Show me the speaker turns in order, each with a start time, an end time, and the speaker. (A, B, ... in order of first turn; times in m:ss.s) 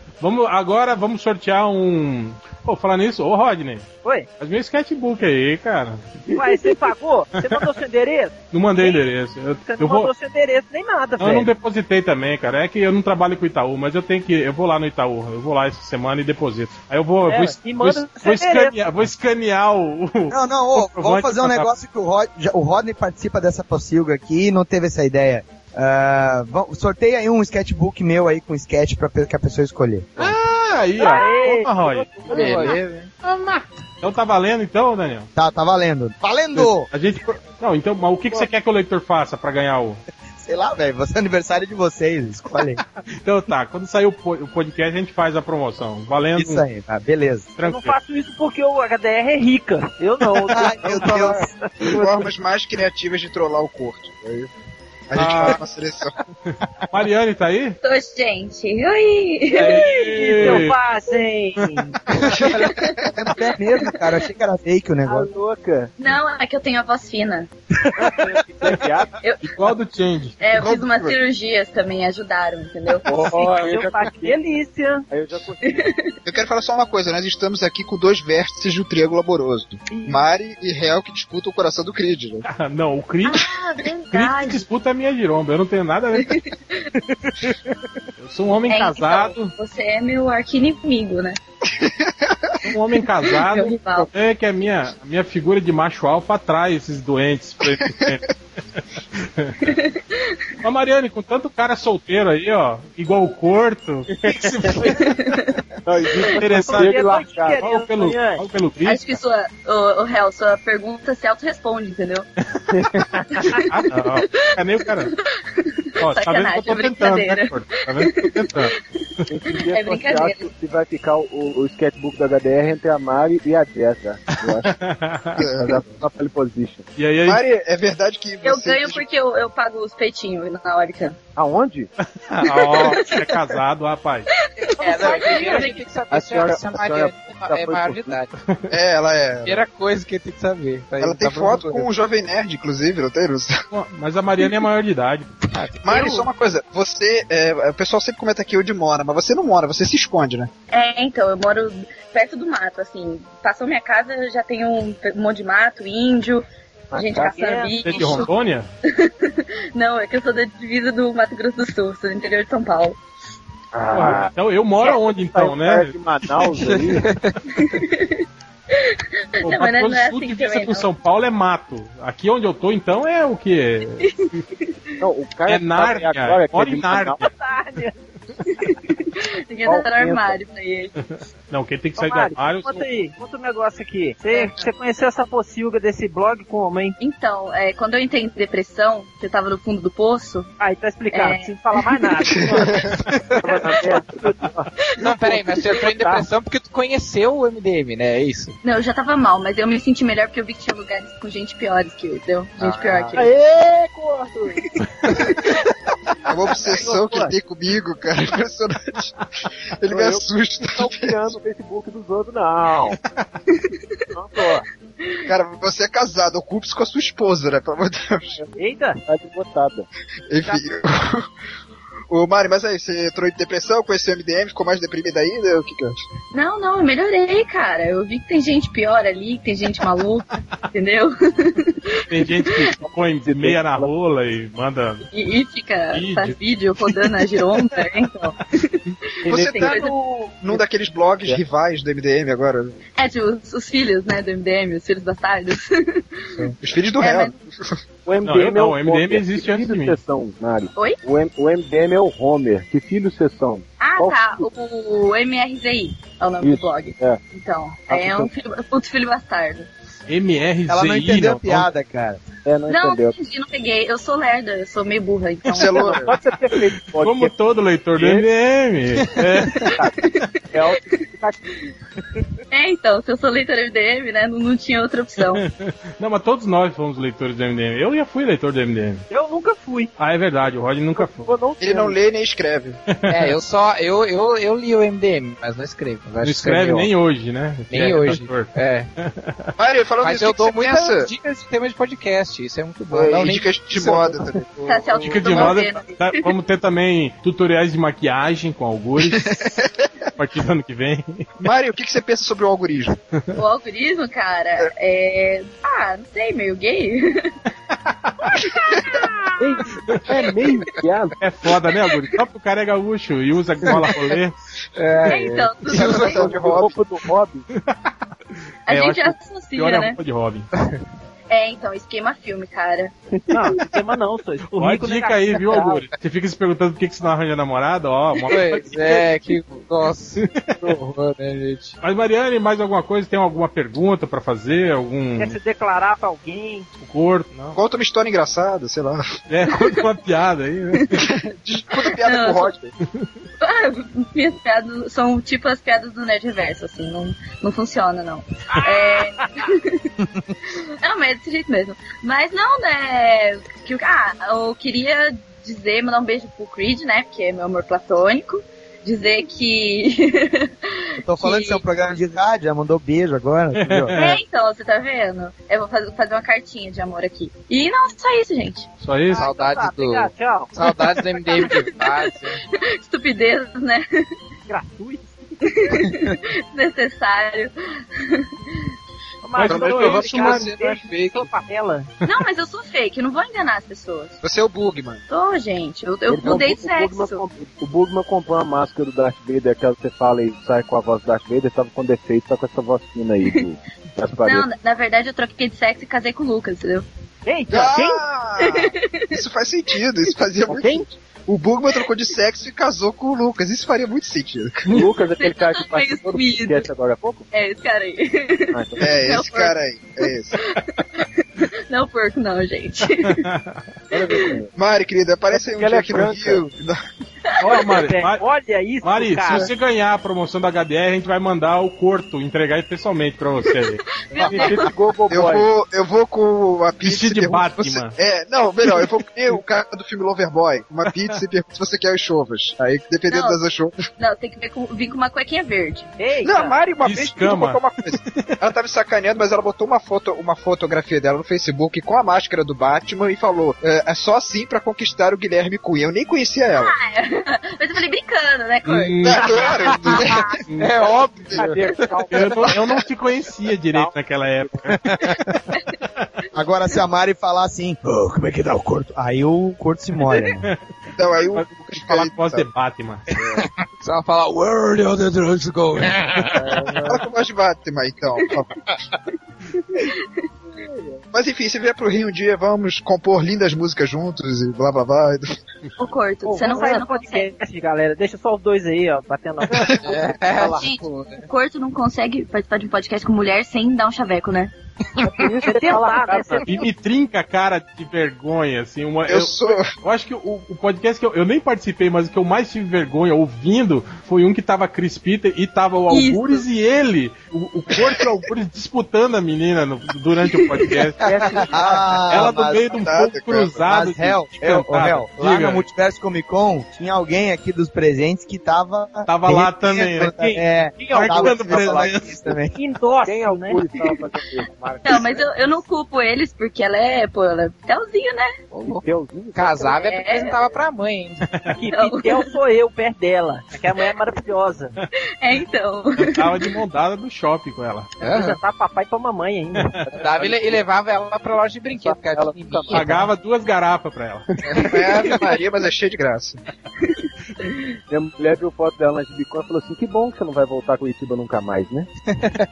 0:00.2-0:03.9 A
0:04.4-0:06.1 A
0:06.3-0:09.0 B
0:08.5-0:10.1 A
0:09.6-0:11.5 B
0:11.2-0:21.7 A
0:17.3-0:18.9 B
0:20.3-0:30.4 C
0:30.2-0:35.3 A
0:31.0-0:32.8 B
0:31.0-0:32.8 D
0:32.3-0:33.1 E
0:35.4-0:36.9 C
0:36.5-0:40.0 A
0:40.4-0:42.8 C
0:43.1-0:46.6 A
0:46.4-0:47.5 C
0:47.6-0:48.0 A
0:47.6-0:52.2 B
0:50.4-0:51.5 C
0:50.9-0:51.4 D
0:51.9-0:54.5 F
0:55.1-0:56.1 F
0:55.1-0:55.6 C
0:55.2-0:55.6 A
0:56.9-0:57.8 A
0:57.8-0:59.8 G
0:59.6-1:00.8 A
0:59.6-1:02.0 B
1:02.3-1:03.1 F
1:02.4-1:03.9 G
1:03.1-1:05.3 C
1:05.0-1:05.9 D
1:06.0-1:07.5 G
1:08.0-1:09.1 D
1:09.2-1:09.5 G
1:09.4-1:10.4 A
1:10.4-1:13.1 G
1:10.6-1:11.2 F
1:13.1-1:14.4 D
1:13.2-1:15.0 B
1:15.1-1:15.9 D
1:15.6-1:16.2 G
1:16.2-1:22.4 F
1:19.9-1:20.2 B
1:22.4-1:23.4 A
1:23.2-1:24.6 G
1:24.1-1:26.3 A
1:26.2-1:26.9 G
1:28.2-1:29.5 A
1:28.6-1:31.4 G
1:31.7-1:32.5 F
1:32.6-1:38.2 A
1:33.2-1:34.1 G
1:37.7-1:38.2 F
1:38.7-1:39.7 A
1:39.6-1:40.4 G
1:40.6-1:45.0 A
1:44.4-1:44.9 D
1:44.9-1:45.6 G
1:45.9-1:47.7 D
1:46.4-1:47.0 A
1:46.6-1:48.4 B
1:47.6-1:49.2 A
1:48.8-1:52.3 G
1:52.6-1:55.1 A
1:54.2-1:58.9 G
1:56.0-1:58.7 A
1:59.3-2:04.7 D
1:59.5-2:00.5 G
2:04.3-2:05.5 A
2:05.4-2:05.9 F
2:06.0-2:06.9 D
2:07.0-2:07.4 A
2:07.3-2:09.0 F
2:08.4-2:11.2 G
2:11.4-2:11.9 D
2:12.0-2:14.3 A
2:12.5-2:13.4 G
2:14.3-2:15.8 G
2:14.6-2:18.3 E
2:15.0-2:15.5 B
2:16.1-2:18.2 D
2:18.7-2:19.6 F
2:19.4-2:21.9 E
2:21.0-2:23.5 F
2:23.7-2:25.3 A
2:25.6-2:26.2 E
2:25.8-2:30.5 F
2:30.7-2:38.3 G
2:36.9-2:38.2 D
2:37.2-2:37.7 B
2:37.8-2:38.7 A
2:38.9-2:43.0 G
2:43.7-2:47.1 D
2:43.9-2:46.0 A
2:47.6-2:50.9 G
2:49.4-2:54.4 A
2:54.0-2:55.0 G
2:55.0-2:57.2 D
2:55.4-2:57.2 A
2:57.2-2:57.9 B
2:58.4-3:00.9 G
2:59.7-3:00.4 D
3:01.0-3:02.9 A
3:02.0-3:07.0 B
3:07.0-3:10.5 G
3:10.6-3:12.7 B
3:11.1-3:12.0 G
3:12.3-3:12.9 F
3:13.4-3:14.4 B
3:13.4-3:14.7 D
3:14.8-3:15.8 G
3:15.0-3:18.5 E
3:18.6-3:23.3 G
3:22.6-3:23.2 E
3:22.8-3:24.6 D
3:26.3-3:29.1 F
3:26.8-3:27.2 D
3:26.8-3:27.3 B
3:29.8-3:31.2 F
3:29.9-3:33.0 D
3:33.5-3:34.0 G
3:34.2-3:34.6 D
3:35.3-3:38.4 F
3:38.4-3:39.9 D
3:38.6-3:39.0 B
3:40.3-3:41.3 F
3:42.1-3:46.0 F
3:46.3-3:52.6 G
3:52.1-3:55.0 A
3:52.8-3:53.9 D
3:55.1-4:00.0 G
3:55.9-3:57.0 A
3:59.2-4:02.8 F
3:59.3-3:59.9 D
4:03.0-4:06.5 G
4:06.4-4:07.8 F
4:07.0-4:07.4 G
4:08.0-4:14.5 D
4:08.2-4:10.0 A
4:10.7-4:11.0 G
4:13.8-4:19.7 G
4:16.4-4:17.2 D
4:17.9-4:18.3 D
4:20.1-4:21.7 A
4:20.7-4:22.2 C
4:22.4-4:23.2 D
4:22.7-4:26.0 G
4:25.5-4:26.2 F
4:25.7-4:27.4 D
4:26.6-4:29.6 A
4:27.9-4:28.3 D
4:29.5-4:31.0 G
4:30.5-4:31.4 D
4:32.5-4:35.4 G
4:35.2-4:39.1 A
4:39.1-4:39.9 B
4:40.0-4:41.3 A
4:41.0-4:42.0 D
4:41.6-4:42.8 F
4:43.1-4:46.9 E
4:46.2-4:49.5 A
4:47.7-4:48.9 E
4:49.6-4:51.1 F
4:50.0-4:54.1 E
4:53.0-4:54.4 F
4:53.0-4:54.9 D
4:54.6-4:56.3 G
4:55.0-4:55.6 F
4:55.0-4:59.6 A
4:59.0-4:59.8 F
5:00.2-5:01.3 A
5:01.4-5:03.0 F
5:03.4-5:07.3 G
5:08.4-5:09.1 G
5:08.4-5:09.0 F
5:09.4-5:11.2 D
5:09.7-5:10.0 A
5:11.2-5:14.4 A
5:13.6-5:14.0 D
5:14.8-5:17.4 D
5:15.0-5:16.4 G
5:15.6-5:16.8 F
5:17.5-5:17.9 A
5:18.7-5:20.0 G
5:18.7-5:20.5 A
5:21.3-5:22.9 G
5:23.3-5:25.8 B
5:24.5-5:29.0 A
5:28.3-5:31.8 E
5:31.8-5:35.3 A
5:35.2-5:36.7 B
5:36.8-5:37.6 A
5:37.6-5:39.0 F
5:39.3-5:41.0 A
5:39.5-5:39.8 G
5:41.0-5:42.7 F
5:41.8-5:42.6 G
5:43.4-5:49.9 G
5:50.5-6:01.6 G
6:01.0-6:03.9 C
6:03.5-6:04.2 A
6:04.0-6:08.7 G
6:08.8-6:09.3 A
6:09.1-6:10.5 B
6:09.1-6:12.4 E
6:11.3-6:14.1 G
6:14.5-6:15.2 B
6:15.4-6:18.6 G
6:19.2-6:21.9 B
6:19.4-6:20.5 F
6:19.4-6:20.3 A
6:19.5-6:21.3 E
6:22.1-6:24.2 G
6:24.2-6:25.0 F
6:25.1-6:27.2 G
6:26.1-6:34.5 D
6:34.2-6:36.9 G
6:37.3-6:38.0 B
6:37.5-6:44.8 F
6:38.4-6:39.2 G
6:40.5-6:40.8 B
6:44.6-6:47.2 D
6:45.0-6:46.7 G
6:47.3-6:49.6 G
6:48.5-6:48.9 D
6:48.8-6:50.4 F
6:50.3-6:53.2 G
6:53.0-6:53.6 A
6:53.9-6:54.5 D
6:54.1-6:54.3 G
6:54.5-6:56.7 F
6:55.3-6:56.5 D
6:57.4-6:59.5 B
6:57.4-6:58.2 A
6:58.8-7:03.8 A
7:03.8-7:04.7 G
7:04.2-7:05.5 D
7:04.2-7:04.5 F
7:05.1-7:13.7 F
7:06.8-7:08.0 A
7:13.1-7:13.4 G
7:14.0-7:16.0 G
7:16.0-7:16.6 B
7:16.2-7:26.7 F
7:16.8-7:18.4 A
7:26.5-7:30.4 G
7:28.6-7:30.0 A
7:29.0-7:30.3 F
7:30.5-7:30.7 A
7:30.6-7:31.6 E
7:31.2-7:31.8 F
7:31.3-7:32.5 D
7:32.1-7:34.8 A
7:32.4-7:32.8 F
7:33.7-7:34.4 D
7:34.8-7:35.2 C
7:35.1-7:35.6 G
7:36.3-7:40.5 C
7:41.0-7:42.5 F
7:41.3-7:43.1 A
7:43.8-7:46.6 E
7:46.4-7:47.0 D
7:46.8-7:48.5 F
7:49.5-7:50.2 G
7:50.5-7:51.0 D
7:51.1-7:55.2 F
7:55.8-7:57.3 G
7:56.3-8:00.6 B
7:56.3-7:56.8 D
7:59.7-8:01.2 E
8:00.3-8:00.6 D
8:00.5-8:04.5 G
8:05.0-8:06.7 D
8:05.4-8:06.6 B
8:06.4-8:21.1 A
8:09.1-8:09.7 F
8:15.9-8:16.4 G
8:20.3-8:20.8 G
8:21.0-8:22.3 D
8:21.3-8:22.6 C
8:22.1-8:25.7 A
8:22.7-8:23.6 F
8:23.6-8:32.5 C
8:29.1-8:32.3 A
8:30.8-8:32.2 D
8:32.5-8:33.6 B
8:33.0-8:35.6 D
8:34.8-8:38.3 G
8:38.5-8:41.2 E
8:38.7-8:39.8 D
8:39.6-8:40.4 G
8:41.5-8:44.7 B
8:41.7-8:42.3 G
8:45.2-8:46.5 G
8:46.0-8:47.9 A
8:48.0-8:48.4 E
8:48.0-8:49.7 B
8:49.9-8:50.6 D
8:49.9-8:52.9 E
8:51.7-8:53.1 D
8:52.7-8:54.3 A
8:54.7-8:56.4 F
8:57.9-9:01.9 D